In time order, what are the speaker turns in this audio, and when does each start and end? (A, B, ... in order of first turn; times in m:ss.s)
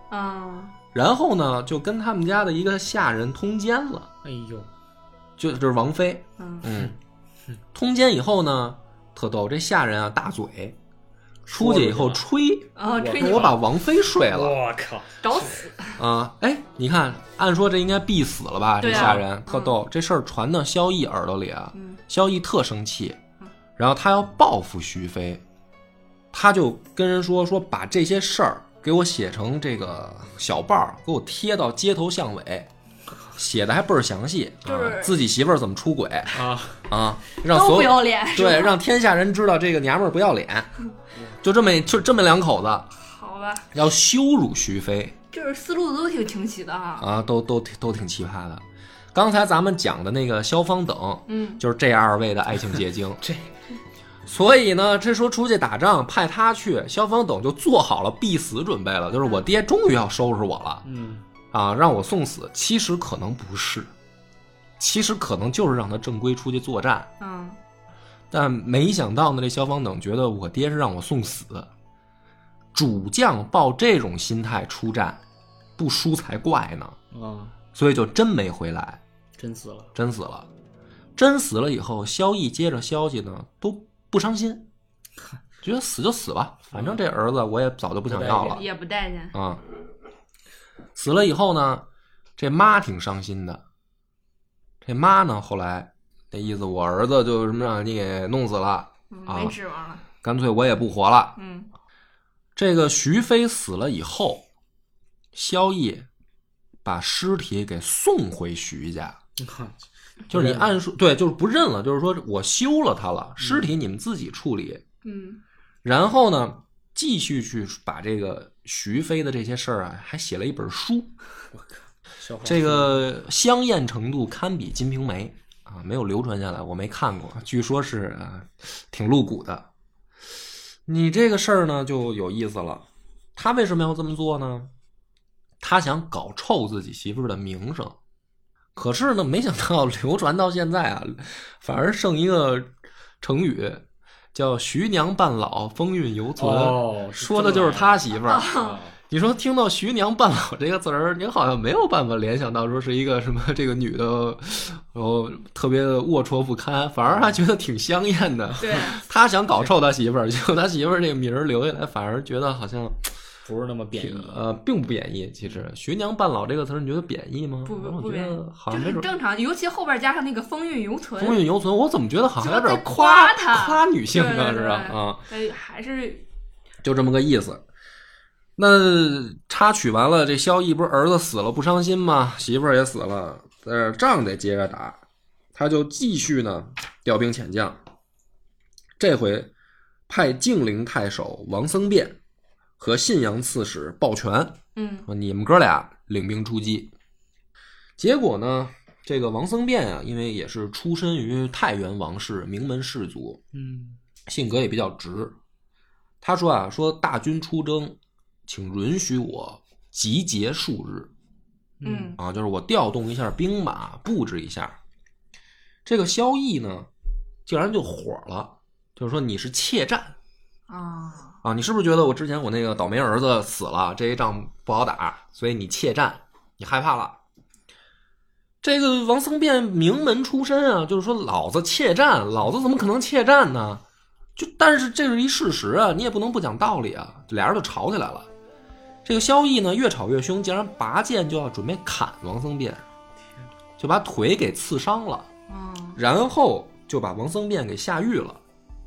0:00.1-0:00.7 A
0:00.9-0:04.1 B
0:04.2-0:04.7 C
0:05.4-0:07.0 B
0:06.4-0:06.7 A
0:07.7-0:10.8 B
0:11.5-0:14.6 B
0:11.5-0:12.2 C
0:12.8-0:13.6 A
0:12.9-0:13.6 C
0:14.2-0:15.6 C
0:15.2-0:16.0 A
0:16.0-0:23.2 B
0:18.8-0:19.8 A
0:18.8-0:19.2 C
0:21.7-0:22.0 A
0:23.8-0:25.4 B
0:26.3-0:32.7 B
0:33.4-0:40.7 B
0:34.6-0:35.2 A
0:36.3-0:36.9 C
0:37.4-0:38.8 A
0:41.4-0:42.9 B
0:43.0-0:43.7 A
0:43.7-0:45.2 B
0:45.3-0:47.1 A
0:47.0-0:53.2 B
0:51.3-0:51.6 A
0:53.2-0:53.5 C
0:54.3-1:00.8 B
1:00.8-1:01.3 C
1:01.5-1:03.9 B
1:04.8-1:07.1 B
1:07.2-1:07.6 A
1:08.3-1:11.7 B
1:12.7-1:15.2 B
1:15.8-1:17.0 B
1:17.1-1:17.6 C
1:17.7-1:19.0 B
1:19.4-1:19.9 C
1:20.0-1:20.5 B
1:21.2-1:24.7 B
1:25.6-1:28.6 B
1:26.7-1:27.0 C
1:28.1-1:28.6 C
1:28.4-1:29.4 A
1:29.3-1:29.6 B
1:31.0-1:31.9 B
1:32.4-1:33.6 B
1:34.8-1:39.6 B
1:39.1-1:40.0 A
1:40.2-1:41.4 B
1:41.4-1:41.7 A
1:42.6-1:44.4 B
1:45.3-1:46.1 B
1:46.8-1:49.2 B
1:49.4-1:50.8 C
1:50.3-1:54.8 B
1:53.4-1:53.7 C
1:55.0-1:55.4 A
1:55.8-2:01.1 B
2:01.5-2:03.1 C
2:02.4-2:09.7 B
2:10.9-2:12.8 B
2:13.4-2:14.7 B
2:15.6-2:18.0 B
2:18.8-2:22.7 B
2:23.2-2:28.5 B
2:26.4-2:29.0 C
2:28.2-2:28.8 A
2:29.1-2:43.1 B
2:37.1-2:37.4 C
2:38.6-2:39.0 A
2:43.4-2:44.4 C
2:44.0-2:49.1 B
2:47.6-2:51.4 A
2:51.2-2:55.2 B
2:52.4-2:56.3 A
2:56.8-2:57.6 B
2:58.6-3:05.0 B
3:05.6-3:07.8 B
3:09.0-3:09.5 B
3:10.1-3:12.2 B
3:12.8-3:16.9 B
3:14.8-3:15.1 A
3:18.0-3:23.4 B
3:23.5-3:24.0 C
3:24.3-3:25.4 B
3:26.2-3:31.1 B
3:31.8-3:32.2 C
3:31.8-3:32.2 A
3:32.2-3:34.8 B
3:35.8-3:36.9 B
3:37.5-3:40.2 B
3:40.7-3:41.4 A
3:41.4-3:47.2 B
3:48.6-3:53.8 B
3:54.4-3:58.3 B
3:59.0-4:02.8 B
4:03.8-4:05.3 B
4:05.5-4:06.0 A
4:06.0-4:08.4 B